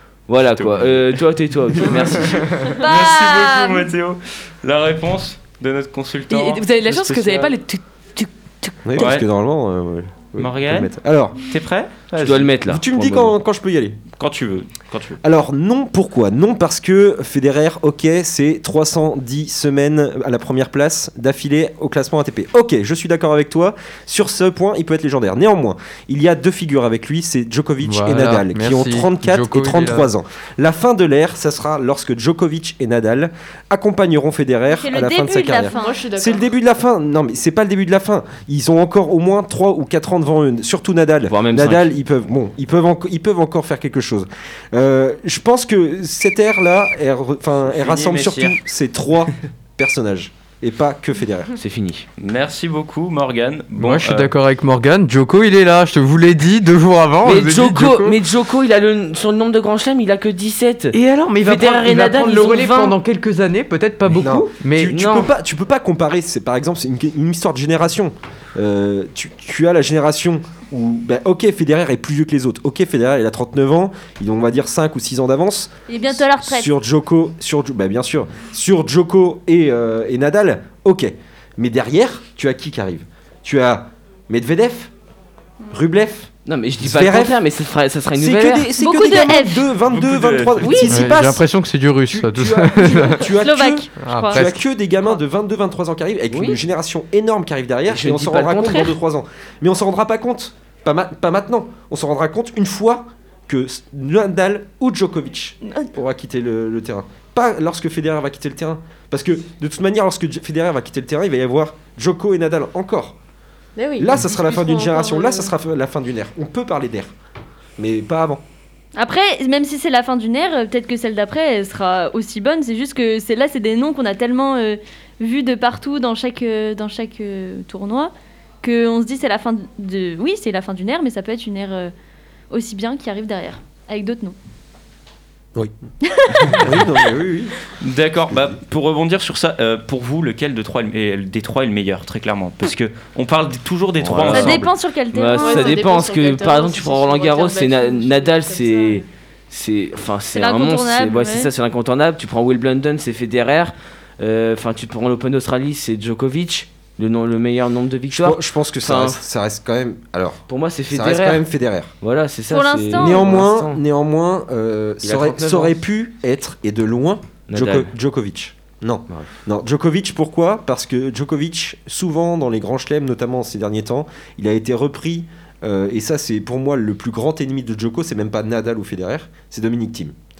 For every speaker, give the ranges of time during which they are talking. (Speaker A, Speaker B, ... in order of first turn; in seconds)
Speaker A: 0.3-2.6, 12.2-13.3, 41.3-42.0, 51.6-52.1, 57.2-63.0, 64.9-65.3, 86.5-88.7, 96.3-96.6, 97.9-98.9, 144.0-159.2, 160.5-161.5, 162.0-163.8, 165.0-165.8, 167.5-167.9
Speaker B: 0.5-1.2, 1.7-7.5, 8.9-9.3, 10.4-12.5, 14.2-15.2, 47.7-48.6, 52.2-54.3, 89.9-90.8, 137.8-144.7
Speaker C: 2.6-3.9, 34.7-36.0, 75.9-76.7, 88.8-89.7, 90.6-91.1, 92.9-94.5, 119.0-131.9, 132.5-134.4, 136.1-136.8, 144.2-145.9, 150.3-151.5, 162.5-163.3
Speaker D: 6.3-9.1
Speaker E: 8.8-11.4, 12.6-14.0, 15.2-51.5, 64.1-84.9, 85.7-87.4, 88.1-91.5, 92.1-113.2, 114.0-117.1, 117.8-118.4, 136.4-137.5, 158.1-161.9, 162.9-180.2
Speaker F: 27.8-30.1, 53.8-58.2, 60.9-64.9, 90.8-93.3, 94.0-94.5
Speaker G: 35.7-36.4, 113.8-115.5, 145.4-149.1